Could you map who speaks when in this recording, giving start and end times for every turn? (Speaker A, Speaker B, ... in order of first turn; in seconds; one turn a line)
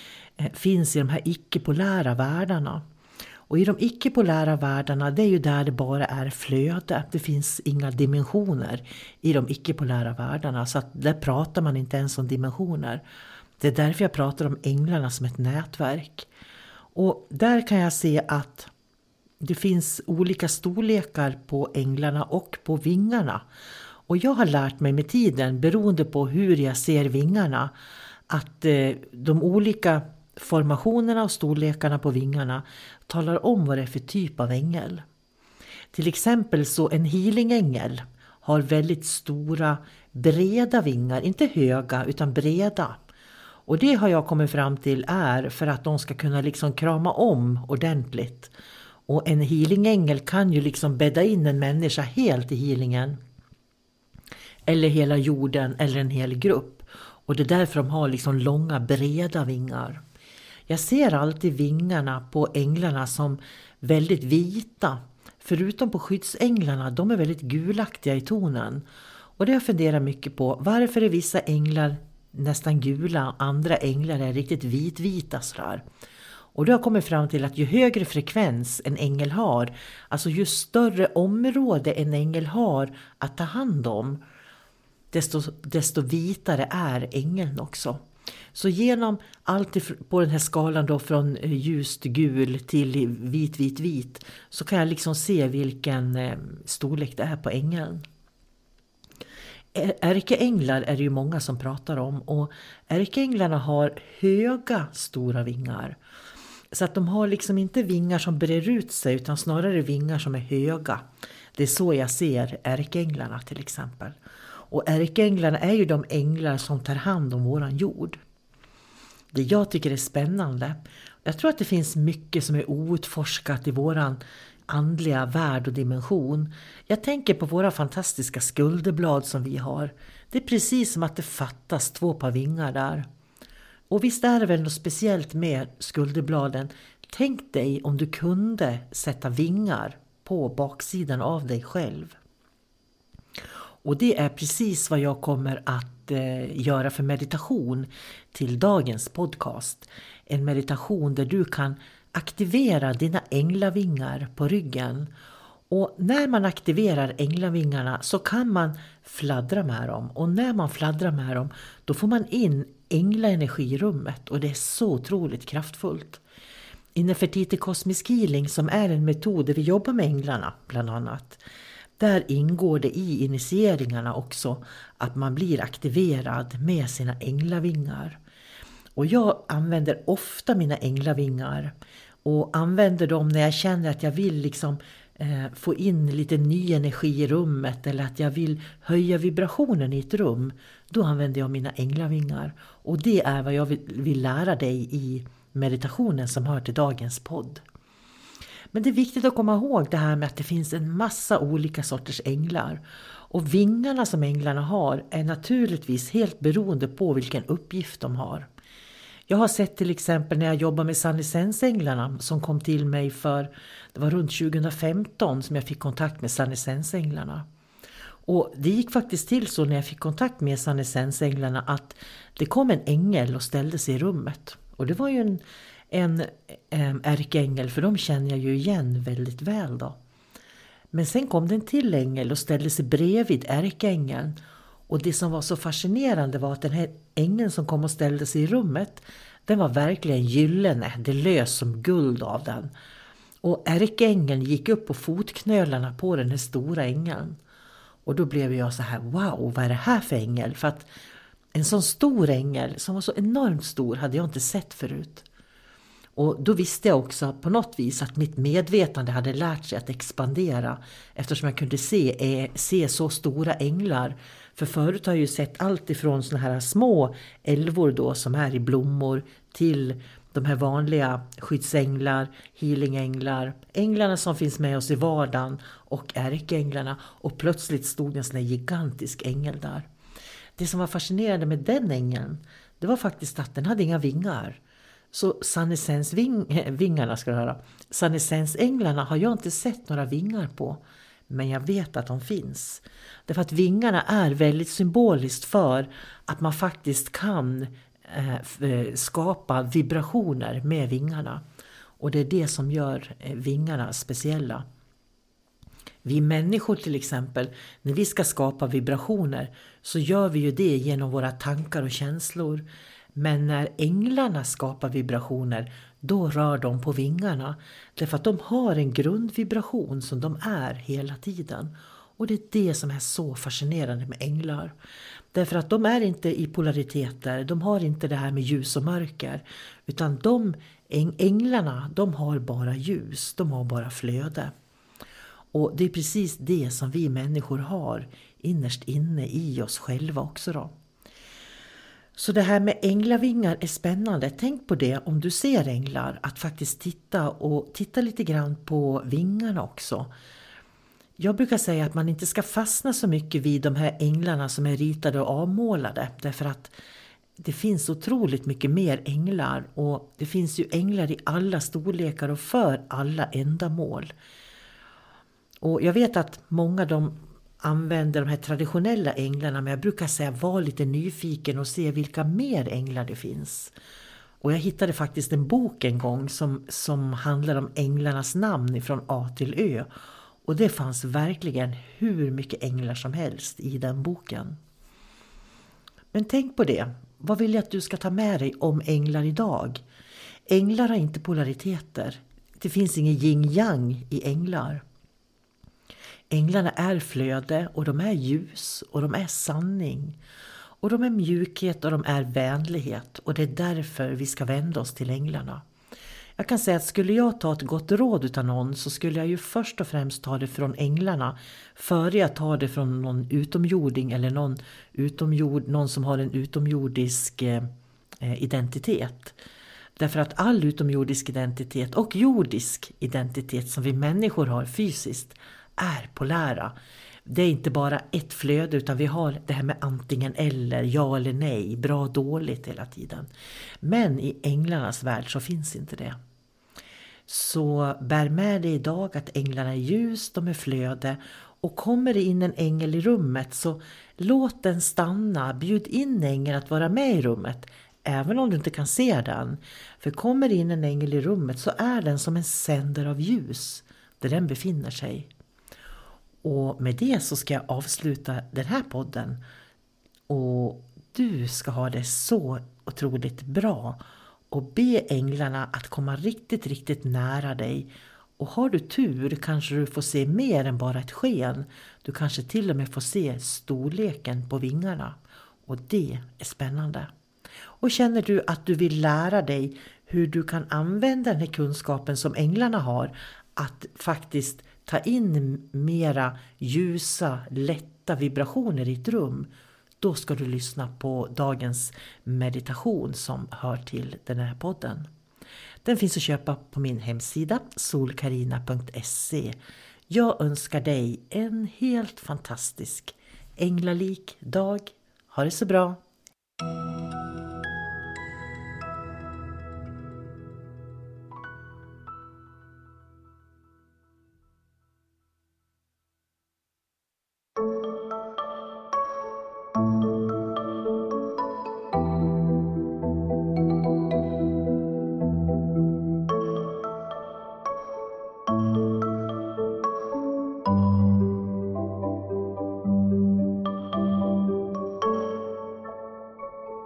Speaker A: 0.4-2.8
Speaker A: 3.5-13.0
Speaker A: 13.6-16.3
Speaker A: 16.9-18.7
Speaker A: 19.4-23.4
Speaker A: 24.1-27.7
Speaker A: 28.3-35.0
Speaker A: 35.9-43.0
Speaker A: 43.7-48.5
Speaker A: 49.1-53.2
Speaker A: 54.7-60.0
Speaker A: 60.7-68.9
Speaker A: 69.4-75.8
Speaker A: 76.5-84.2
Speaker A: 85.1-88.0
Speaker A: 88.5-98.0
Speaker A: 99.7-106.0
Speaker A: 106.7-114.2
Speaker A: 114.7-118.2
Speaker A: 119.3-133.1
Speaker A: 133.9-142.2
Speaker A: 143.8-155.1
Speaker A: 155.7-166.2
Speaker A: 166.9-171.4
Speaker A: 172.0-178.2
Speaker A: 178.9-197.6
Speaker A: 198.7-208.5
Speaker A: 209.3-217.4
Speaker A: 218.2-229.9
Speaker A: 230.9-242.7
Speaker A: 243.4-247.4
Speaker A: 248.0-250.9
Speaker A: 251.5-255.2
Speaker A: 256.1-279.9
Speaker A: 280.6-284.6
Speaker A: 285.1-301.4
Speaker A: 302.0-304.6
Speaker A: 306.0-324.7
Speaker A: 325.3-334.5
Speaker A: 335.5-340.7
Speaker A: 342.1-350.1
Speaker A: 351.2-356.7
Speaker A: 357.4-364.1
Speaker A: 365.6-373.7
Speaker A: 374.4-379.9
Speaker A: 380.4-384.6
Speaker A: 386.1-389.8
Speaker A: 390.5-394.8
Speaker A: 396.3-400.2
Speaker A: 400.8-405.6
Speaker A: 406.4-417.7
Speaker A: 418.2-419.4
Speaker A: 420.0-426.7
Speaker A: 427.2-433.3
Speaker A: 433.8-436.2
Speaker A: 437.3-455.3
Speaker A: 456.4-459.4
Speaker A: 460.3-477.1
Speaker A: 477.8-495.1
Speaker A: 495.8-499.6
Speaker A: 500.1-506.0